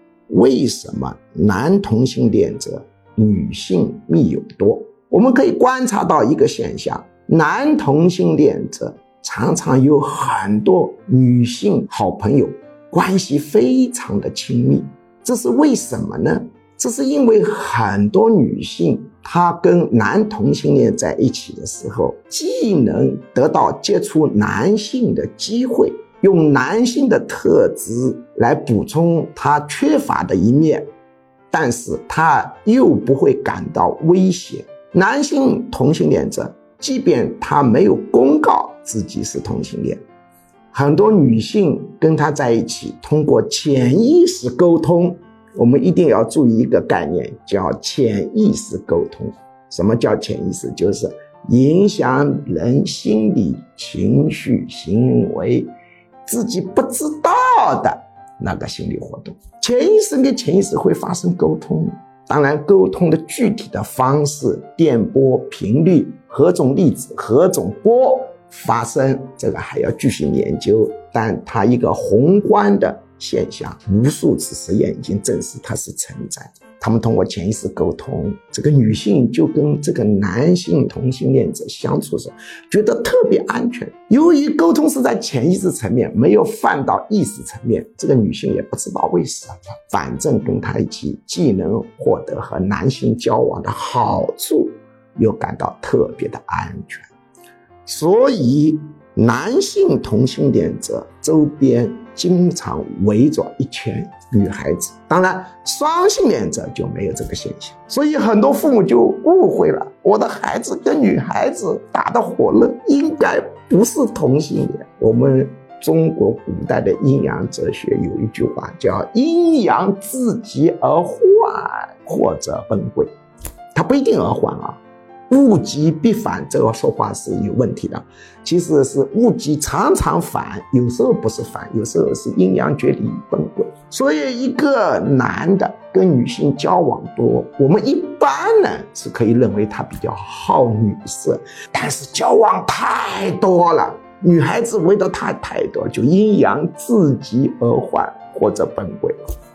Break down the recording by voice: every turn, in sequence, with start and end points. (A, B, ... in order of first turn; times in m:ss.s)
0:00.3-0:30.9 A
0:31.5-0:40.0 A
0:40.7-0:55.7 A
0:56.3-1:37.1 A
1:37.9-2:03.1 A
2:03.7-2:29.2 A